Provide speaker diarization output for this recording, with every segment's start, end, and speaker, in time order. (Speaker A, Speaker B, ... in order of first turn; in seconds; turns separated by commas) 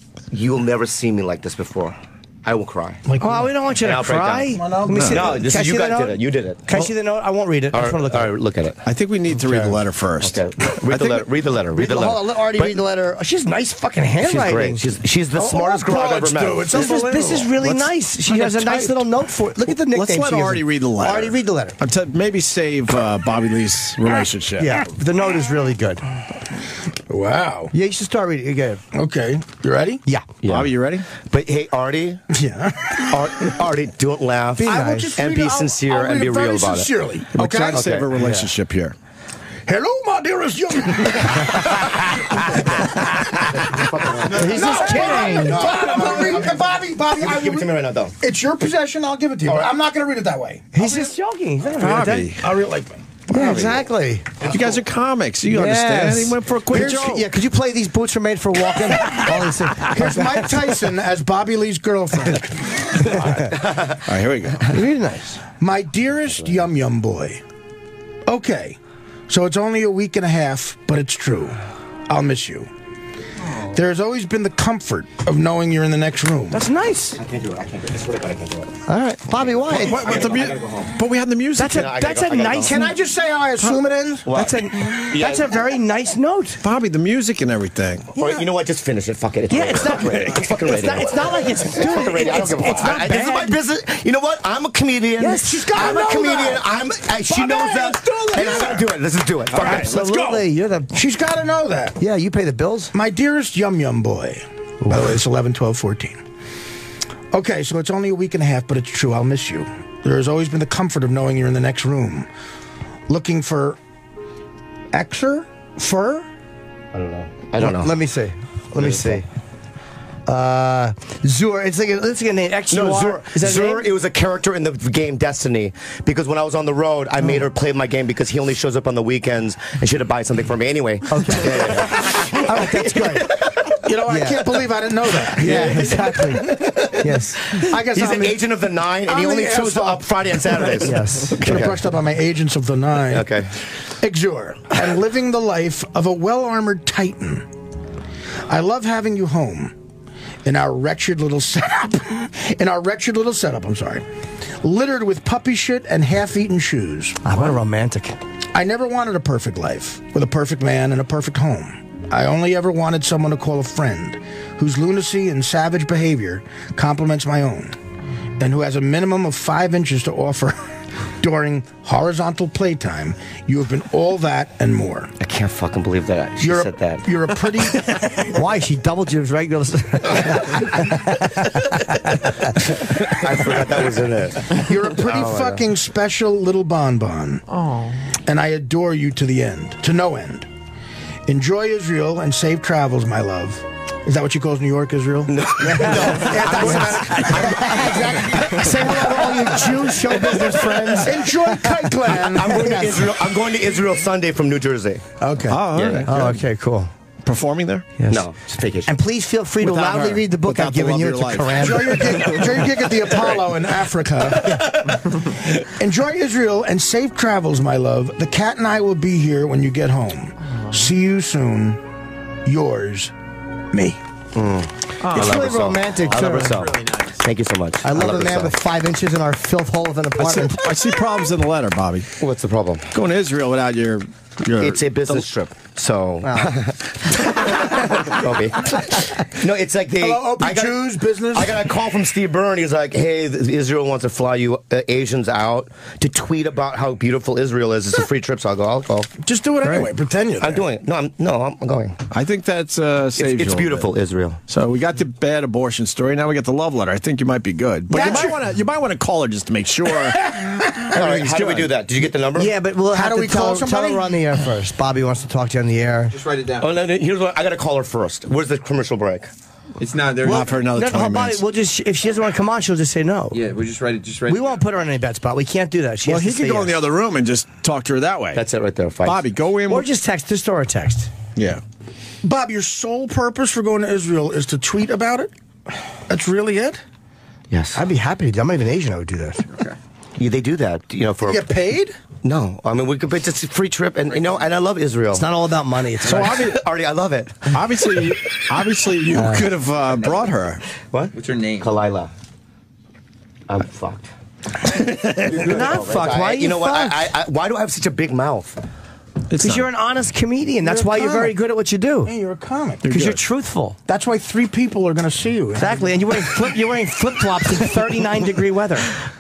Speaker A: 0.3-3.0, Speaker B: 3.1-3.5, Speaker C: 3.2-8.3, Speaker A: 3.8-6.8, Speaker B: 4.5-5.3, Speaker D: 5.0-5.2, Speaker A: 7.7-8.8, Speaker D: 8.8-11.1, Speaker C: 9.4-9.8, Speaker A: 10.2-12.8, Speaker C: 11.8-14.8, Speaker A: 14.2-16.9, Speaker B: 15.4-17.5, Speaker C: 16.7-21.8, Speaker A: 18.3-18.9, Speaker D: 18.4-18.9, Speaker D: 19.7-24.9, Speaker C: 24.6-26.1, Speaker B: 27.1-27.7, Speaker C: 27.7-28.8, Speaker B: 28.9-30.0, Speaker A: 30.4-32.2, Speaker D: 30.5-31.1, Speaker B: 32.3-33.2, Speaker A: 33.1-36.9, Speaker C: 34.6-35.2, Speaker B: 34.6-37.9, Speaker D: 37.4-39.0, Speaker C: 37.4-38.5, Speaker A: 37.7-38.1, Speaker B: 39.7-51.1, Speaker A: 43.6-48.1, Speaker C: 44.3-45.7, Speaker A: 49.5-49.7, Speaker C: 50.7-52.4, Speaker D: 51.8-52.4, Speaker B: 52.4-53.1, Speaker C: 53.3-54.4, Speaker A: 53.3-53.9, Speaker D: 54.4-57.3, Speaker C: 55.5-60.6, Speaker B: 56.7-57.1, Speaker B: 59.9-63.3, Speaker C: 63.0-63.5, Speaker A: 63.6-64.0, Speaker D: 64.0-64.7, Speaker C: 64.7-65.4, Speaker B: 65.6-67.4, Speaker B: 68.3-68.8, Speaker B: 69.3-72.7, Speaker B: 73.7-76.6, Speaker C: 76.5-77.2, Speaker A: 77.2-80.9, Speaker C: 78.9-80.2, Speaker D: 79.7-81.8, Speaker C: 81.6-83.0, Speaker A: 81.7-82.9, Speaker B: 82.6-84.3, Speaker C: 83.6-86.6, Speaker A: 84.2-85.6, Speaker D: 86.6-88.1, Speaker A: 88.1-100.3, Speaker C: 89.5-93.6, Speaker D: 90.0-90.3, Speaker C: 95.2-96.0, Speaker B: 95.3-96.6, Speaker B: 97.2-98.9, Speaker B: 99.5-102.0, Speaker C: 99.5-100.9, Speaker C: 102.0-102.9, Speaker B: 102.9-106.2, Speaker C: 104.8-105.1, Speaker B: 107.3-112.3, Speaker B: 113.1-113.8, Speaker B: 114.9-116.3, Speaker A: 116.9-118.0, Speaker C: 117.6-119.3, Speaker A: 118.8-119.2, Speaker C: 120.3-123.9, Speaker A: 122.7-133.9, Speaker C: 131.1-133.3, Speaker B: 133.8-136.8, Speaker C: 134.1-134.5, Speaker A: 135.3-141.9, Speaker C: 135.4-137.4, Speaker B: 137.5-138.4, Speaker B: 139.1-143.3, Speaker C: 140.8-141.4, Speaker A: 143.1-143.6, Speaker B: 144.0-147.5, Speaker B: 148.5-149.7, Speaker B: 150.4-154.0, Speaker B: 154.6-157.2, Speaker C: 157.2-158.2, Speaker B: 158.6-167.8, Speaker B: 168.4-175.1, Speaker A: 175.2-177.1, Speaker B: 176.4-178.2, Speaker C: 178.3-182.6, Speaker A: 182.7-185.7, Speaker B: 184.5-187.4, Speaker E: 187.5-188.0, Speaker B: 188.3-190.5, Speaker B: 191.3-199.6, Speaker A: 195.3-201.1, Speaker C: 195.7-201.8, Speaker B: 200.6-202.9, Speaker A: 202.1-205.1, Speaker C: 202.4-203.1, Speaker B: 205.2-205.6, Speaker D: 205.5-206.4, Speaker A: 205.7-206.1, Speaker C: 206.1-206.9, Speaker D: 207.2-207.9, Speaker C: 208.0-208.3, Speaker A: 208.1-208.9, Speaker C: 208.9-212.4, Speaker D: 209.6-212.6, Speaker B: 211.6-214.8, Speaker B: 215.6-221.8, Speaker E: 220.6-220.9, Speaker B: 222.4-223.1, Speaker B: 223.7-224.0, Speaker A: 224.3-228.6, Speaker E: 225.0-225.5, Speaker C: 225.1-226.6, Speaker E: 226.1-227.2, Speaker C: 227.8-230.7, Speaker D: 230.2-232.1, Speaker A: 232.2-232.9, Speaker D: 232.9-235.2, Speaker A: 234.6-249.1, Speaker C: 236.2-236.5, Speaker B: 240.0-241.6, Speaker B: 249.2-250.7, Speaker C: 249.6-249.9, Speaker A: 250.4-252.0, Speaker D: 252.1-253.9, Speaker A: 253.2-254.4, Speaker D: 254.5-260.3, Speaker B: 257.9-258.4, Speaker C: 257.9-258.2, Speaker B: 260.0-261.0, Speaker A: 260.9-262.5, Speaker D: 260.9-261.7, Speaker C: 262.4-266.1, Speaker B: 262.9-264.2, Speaker E: 266.1-266.7, Speaker A: 266.6-269.3, Speaker E: 269.8-270.6, Speaker D: 270.2-271.4, Speaker C: 270.7-273.4, Speaker E: 273.3-274.6, Speaker C: 274.3-276.8, Speaker D: 276.1-278.4, Speaker A: 278.3-279.2, Speaker D: 279.1-279.9, Speaker C: 279.7-281.1, Speaker D: 281.4-281.6, Speaker B: 282.2-285.3, Speaker B: 286.1-286.8, Speaker A: 287.5-287.8, Speaker C: 287.8-289.4, Speaker A: 290.2-291.5, Speaker B: 291.2-292.0, Speaker A: 292.2-295.3, Speaker C: 295.1-296.5, Speaker D: 296.0-296.6, Speaker A: 296.1-298.1, Speaker D: 297.5-300.6, Speaker C: 299.1-299.5, Speaker E: 300.0-300.3, Speaker A: 300.9-302.1, Speaker E: 301.1-301.7, Speaker A: 303.5-304.1, Speaker A: 304.7-308.6, Speaker C: 305.4-307.1, Speaker D: 309.3-309.7, Speaker C: 309.3-312.1, Speaker B: 310.6-311.4, Speaker B: 312.1-312.9, Speaker D: 312.8-313.2, Speaker C: 312.9-313.8, Speaker B: 313.9-316.2, Speaker C: 315.6-318.9